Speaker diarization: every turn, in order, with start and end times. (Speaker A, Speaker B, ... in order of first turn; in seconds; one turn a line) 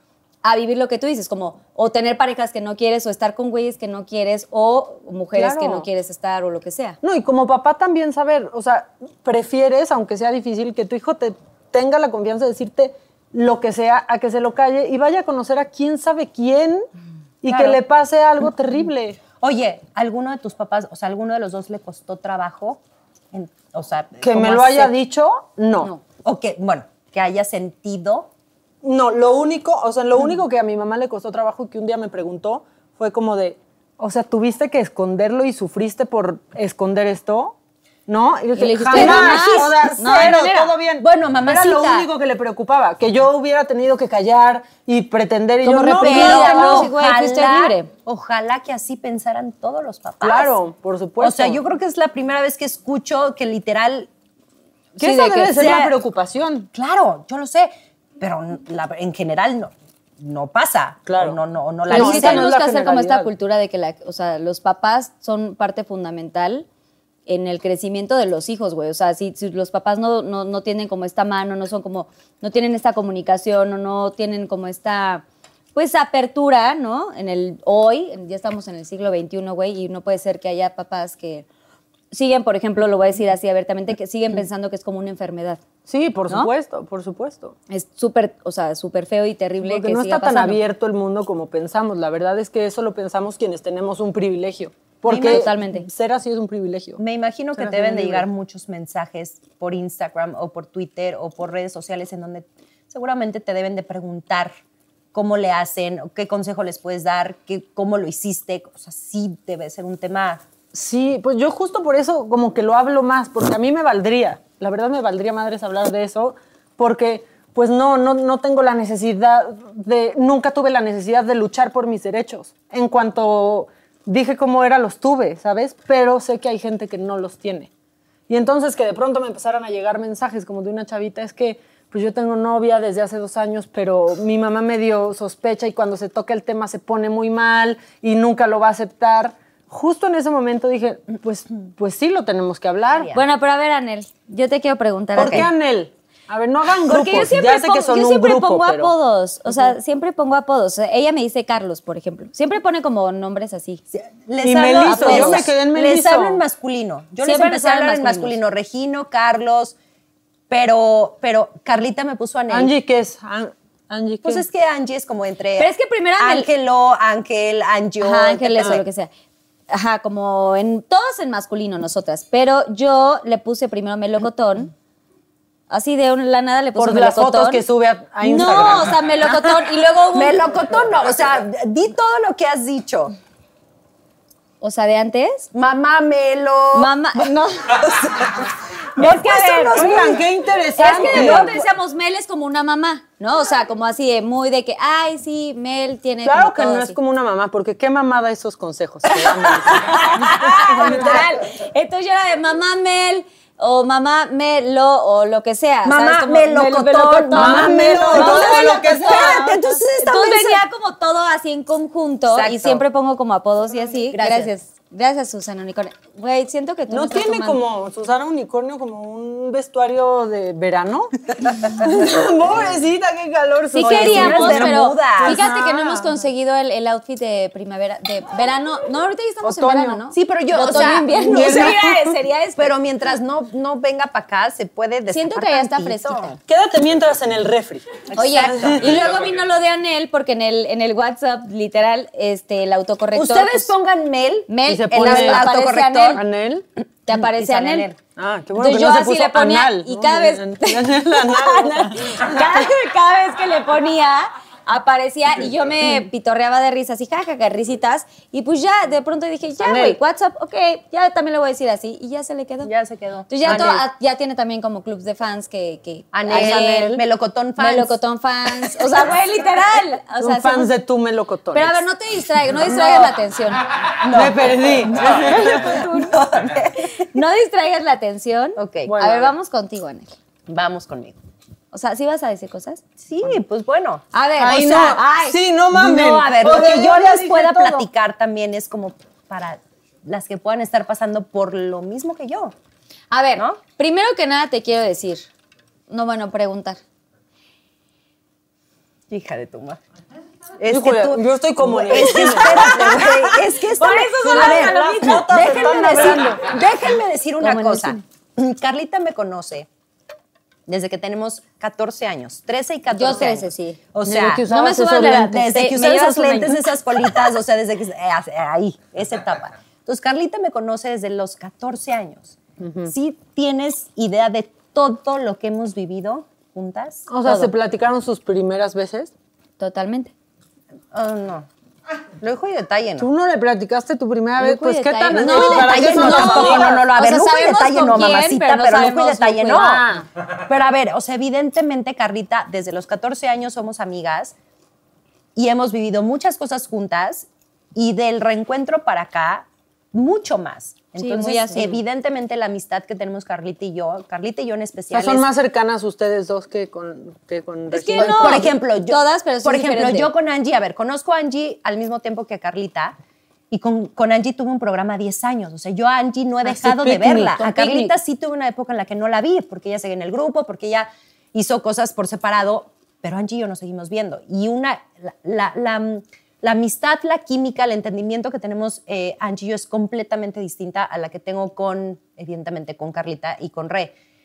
Speaker A: 0.4-7.0
Speaker B: 5.3-5.9
Speaker B: 7.0-16.9
Speaker B: 17.4-19.2
Speaker C: 17.4-17.8
Speaker C: 19.4-22.8
Speaker C: 23.3-24.9
Speaker B: 24.2-25.9
Speaker C: 26.1-28.3
Speaker B: 28.8-37.5
Speaker B: 38.1-46.9
Speaker A: 38.5-40.7
Speaker C: 38.9-40.4
Speaker C: 41.0-42.1
Speaker C: 45.6-50.5
Speaker A: 45.9-47.9
Speaker B: 50.2-51.6
Speaker C: 51.2-54.1
Speaker A: 55.0-55.6
Speaker B: 55.0-56.7
Speaker C: 55.5-55.9
Speaker C: 56.7-62.5
Speaker B: 61.1-63.3
Speaker A: 61.9-66.7
Speaker A: 67.3-75.2
Speaker A: 75.7-81.5
Speaker A: 82.1-85.6
Speaker B: 85.8-87.5
Speaker A: 87.7-90.6
Speaker B: 89.6-97.0
Speaker A: 95.1-95.8
Speaker C: 95.1-95.5
Speaker C: 97.0-104.5
Speaker B: 97.5-98.3
Speaker C: 105.1-110.4
Speaker B: 110.7-127.7
Speaker B: 128.3-143.1
Speaker C: 142.9-143.2
Speaker A: 143.1-145.5
Speaker B: 145.2-148.9
Speaker C: 145.2-145.5
Speaker A: 146.9-153.8
Speaker C: 153.9-159.7
Speaker B: 154.4-156.4
Speaker A: 154.8-155.5
Speaker A: 157.2-158.4
Speaker C: 160.5-162.7
Speaker B: 162.5-164.4
Speaker C: 164.2-168.8
Speaker A: 165.6-166.5
Speaker A: 168.0-169.1
Speaker A: 169.7-174.7
Speaker A: 175.7-177.6
Speaker B: 176.8-178.9
Speaker A: 178.2-180.4
Speaker C: 180.1-183.1
Speaker A: 184.6-185.5
Speaker C: 185.5-187.2
Speaker A: 186.7-187.7
Speaker C: 187.7-190.2
Speaker A: 188.9-190.0
Speaker B: 189.6-191.6
Speaker C: 190.8-191.7
Speaker A: 190.8-197.0
Speaker B: 196.2-201.2
Speaker C: 199.7-201.2
Speaker A: 199.9-217.6
Speaker C: 205.8-210.6
Speaker B: 207.3-209.6
Speaker C: 212.3-212.8
Speaker C: 214.1-214.5
Speaker B: 216.9-226.1
Speaker A: 223.7-232.7
Speaker C: 223.8-225.5
Speaker B: 229.4-230.0
Speaker C: 230.1-236.3
Speaker B: 230.6-232.0
Speaker A: 235.1-236.4
Speaker B: 236.4-239.2
Speaker C: 238.1-238.9
Speaker A: 238.2-243.7
Speaker C: 243.1-246.2
Speaker A: 244.5-246.2
Speaker B: 244.7-245.5
Speaker B: 246.1-246.6
Speaker A: 247.1-247.9
Speaker C: 247.1-248.0
Speaker B: 248.2-252.7
Speaker A: 248.6-262.7
Speaker B: 259.6-260.0
Speaker C: 262.6-263.8
Speaker A: 263.3-267.0
Speaker B: 263.4-263.8
Speaker C: 266.1-267.9
Speaker B: 266.3-267.0
Speaker A: 267.6-270.7
Speaker C: 268.7-269.0
Speaker B: 270.2-271.8
Speaker A: 271.5-273.6
Speaker C: 272.6-273.1
Speaker C: 274.0-277.1
Speaker B: 274.1-275.4
Speaker A: 275.0-276.1
Speaker A: 276.9-280.1
Speaker C: 278.6-278.9
Speaker B: 278.8-279.3
Speaker C: 280.5-281.2
Speaker A: 281.7-282.8
Speaker C: 283.0-284.0
Speaker A: 284.1-285.4
Speaker B: 284.4-287.9
Speaker C: 284.6-285.0
Speaker C: 285.7-292.5
Speaker A: 293.1-295.2
Speaker A: 295.9-296.8
Speaker C: 299.1-299.8
Speaker C: 300.6-309.7
Speaker B: 300.6-303.4
Speaker A: 302.2-303.1
Speaker A: 303.8-306.2
Speaker B: 304.2-306.4
Speaker A: 307.4-308.0
Speaker C: 310.7-314.5
Speaker A: 312.9-313.8
Speaker B: 314.0-316.4
Speaker A: 314.4-316.6
Speaker C: 315.0-327.2
Speaker B: 322.6-322.9
Speaker B: 327.1-329.1
Speaker A: 329.6-330.1
Speaker C: 330.9-331.5
Speaker C: 332.2-333.1
Speaker B: 333.0-336.8
Speaker A: 334.4-339.8
Speaker C: 335.1-339.8
Speaker B: 339.5-340.1
Speaker C: 340.5-344.3
Speaker C: 345.4-355.2
Speaker A: 351.0-351.8
Speaker B: 354.9-358.5
Speaker A: 357.7-360.1
Speaker C: 357.9-362.9
Speaker C: 363.5-383.9
Speaker A: 366.6-367.9
Speaker B: 366.7-367.3